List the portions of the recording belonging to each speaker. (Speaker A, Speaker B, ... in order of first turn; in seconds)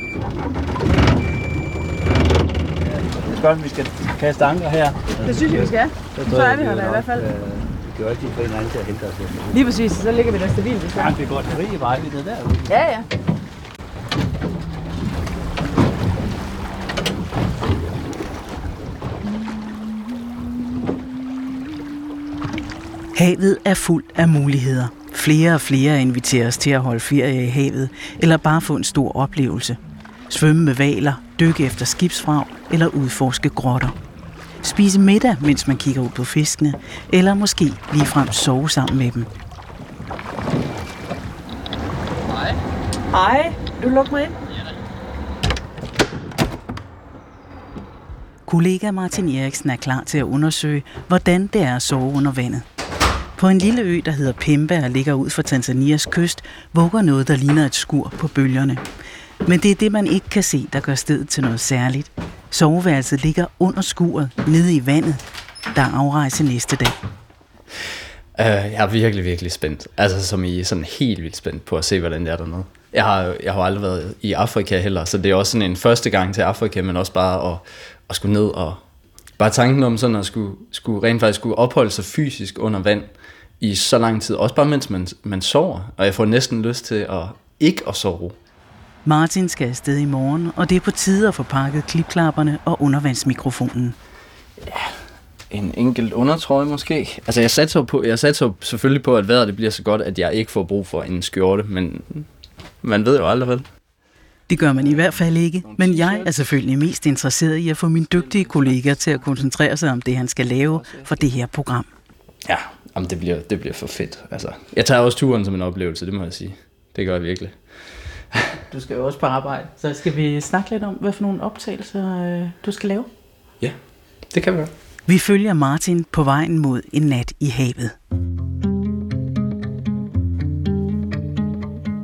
Speaker A: 2.8-9.6, 10.9-12.8
Speaker B: 5.2-7.3, 9.5-11.1, 12.7-13.1, 43.1-44.3
Speaker C: 23.1-29.8, 30.3-33.9, 34.6-39.3, 48.5-52.6, 53.4-58.8, 59.4-65.2, 65.7-67.0, 89.0-94.0, 104.5-111.9, 118.7-123.1, 125.0-128.0
Speaker D: 68.3-78.8, 79.4-88.3, 94.6-94.9, 95.5-102.3, 102.8-103.6, 104.8-105.2, 105.7-106.3, 108.2-108.8, 112.4-118.5, 124.3-124.7